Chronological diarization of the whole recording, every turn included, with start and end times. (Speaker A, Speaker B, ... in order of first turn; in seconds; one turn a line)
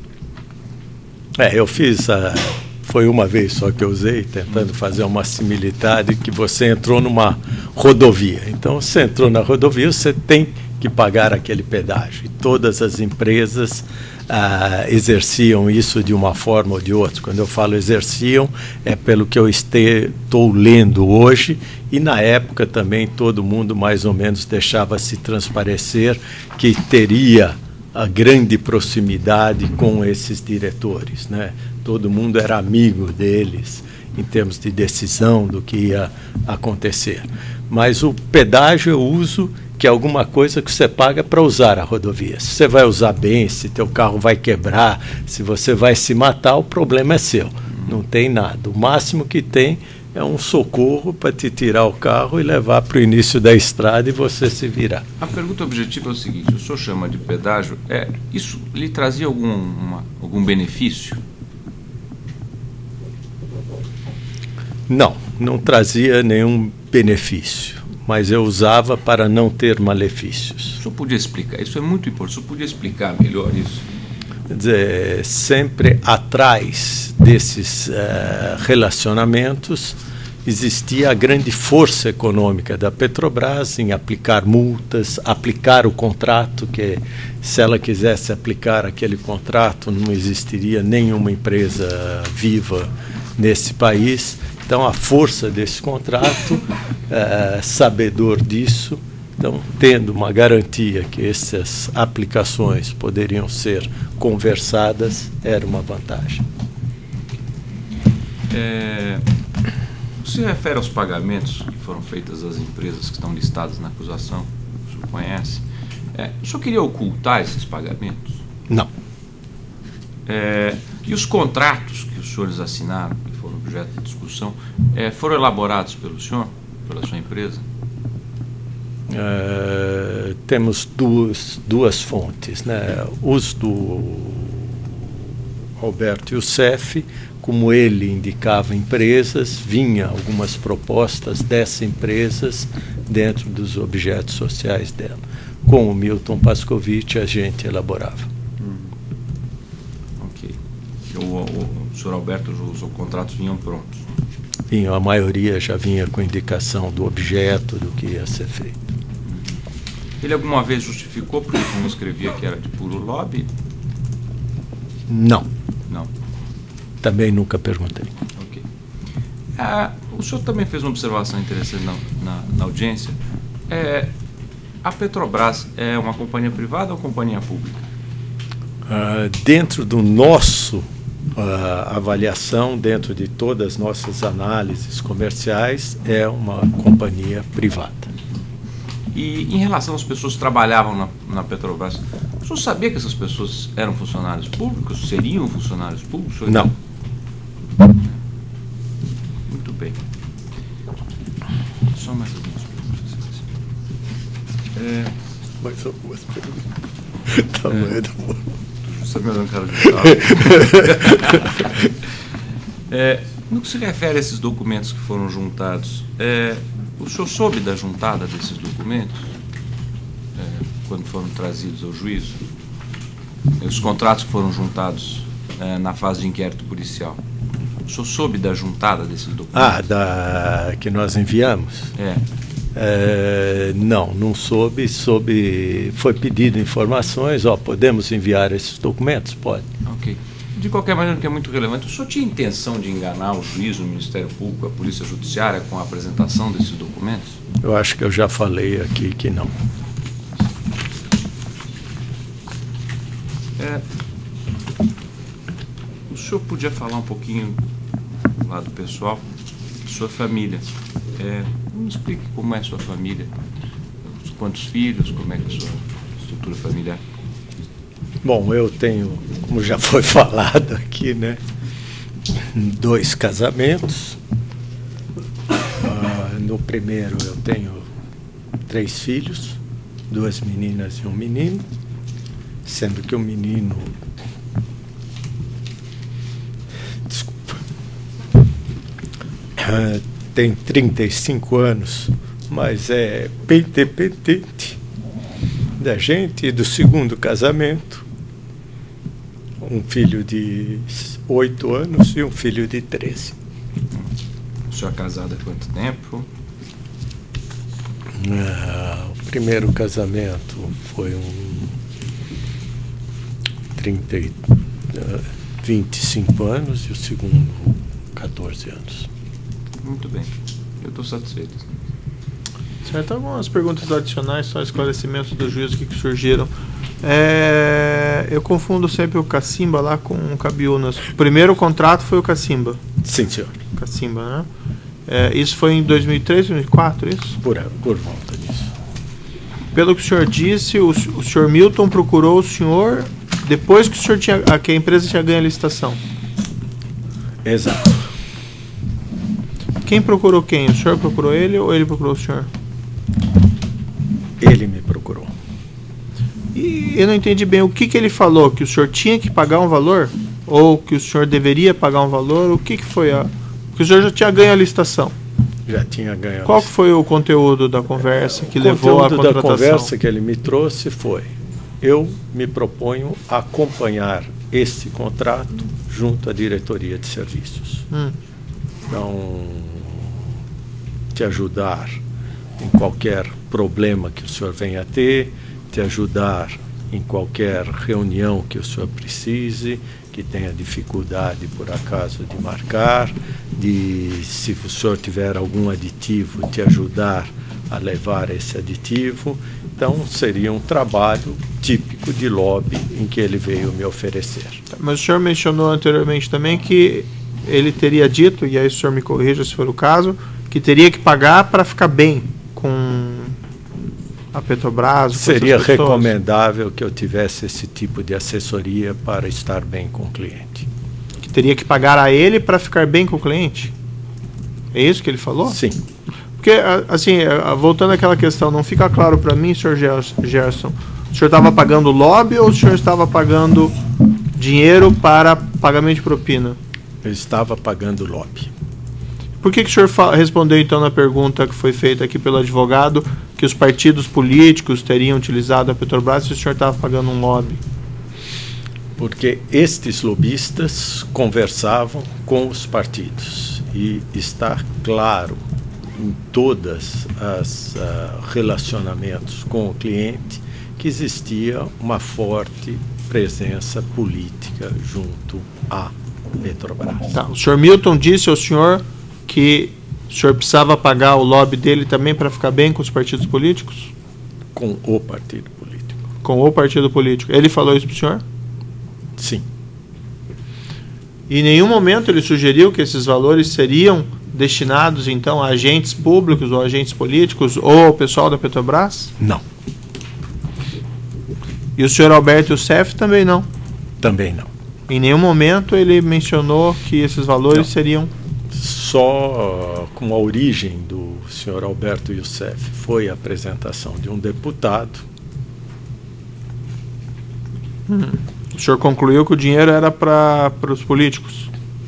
Speaker A: 1.4-55.0
Speaker B: 55.2-61.2
Speaker A: 64.9-70.8
Speaker B: 70.8-73.8
Speaker A: 74.5-106.4
Speaker B: 108.5-109.2
Speaker B: 110.2-118.4
Speaker B: 120.2-127.6
Speaker A: 129.1-148.3
Speaker B: 148.6-148.9
Speaker B: 150.2-150.6
Speaker B: 151.1-154.0
Speaker A: 154.7-158.9
Speaker B: 159.2-159.6
Speaker B: 160.2-163.5
Speaker A: 165.1-165.5
Speaker A: 167.0-168.1
Speaker B: 168.3-168.6
Speaker B: 169.6-173.2
Speaker B: 173.7-174.1
Speaker B: 174.8-177.8
Speaker A: 178.9-188.1
Speaker B: 189.1-196.7
Speaker B: 199.5-200.0
Speaker B: 201.9-203.5
Speaker B: 204.7-205.1
Speaker A: 205.6-206.7
Speaker A: 207.2-208.4
Speaker B: 208.8-211.9
Speaker A: 209.8-211.9
Speaker B: 212.9-219.3
Speaker B: 220.3-222.4
Speaker B: 223.6-227.2
Speaker B: 227.8-229.8
Speaker A: 229.5-231.9
Speaker B: 231.9-232.2
Speaker A: 232.7-239.7
Speaker B: 239.8-247.4
Speaker A: 247.6-249.5
Speaker B: 253.6-253.8
Speaker B: 256.1-257.6
Speaker B: 258.4-259.2
Speaker B: 259.8-263.3
Speaker B: 264.0-267.0
Speaker A: 268.2-271.4
Speaker A: 272.3-274.2
Speaker A: 275.8-277.9
Speaker A: 278.7-281.6
Speaker A: 282.6-284.0
Speaker A: 287.1-287.6
Speaker A: 289.6-294.8
Speaker A: 295.8-298.0
Speaker A: 299.6-303.4
Speaker B: 304.7-306.3
Speaker A: 308.1-311.8
Speaker A: 313.8-319.1
Speaker B: 319.8-321.7
Speaker C: 322.8-326.5
Speaker C: 327.0-332.8
Speaker A: 333.0-333.6
Speaker C: 333.8-334.5
Speaker C: 335.1-337.4
Speaker A: 337.4-338.7
Speaker C: 339.7-346.0
Speaker A: 347.4-348.1
Speaker C: 349.8-352.5
Speaker A: 354.4-355.3
Speaker C: 356.5-365.1
Speaker A: 365.7-366.7
Speaker C: 366.4-369.9
Speaker A: 368.1-377.9
Speaker C: 377.9-378.1
Speaker A: 378.9-380.2
Speaker A: 381.1-382.0
Speaker A: 382.6-404.6
Speaker C: 404.7-413.4
Speaker C: 414.3-416.1
Speaker A: 415.1-420.7
Speaker C: 421.2-423.7
Speaker C: 424.7-425.6
Speaker A: 425.5-425.8
Speaker C: 426.4-433.7
Speaker C: 434.4-436.6
Speaker A: 437.0-438.5
Speaker C: 439.4-447.6
Speaker A: 448.9-455.4
Speaker A: 455.9-467.1
Speaker C: 467.1-473.9
Speaker A: 474.5-476.0
Speaker C: 476.2-478.2
Speaker A: 479.2-479.4
Speaker C: 481.3-489.1
Speaker C: 491.8-493.5
Speaker A: 494.0-494.5
Speaker C: 494.9-498.1
Speaker A: 498.5-505.0
Speaker C: 507.9-511.5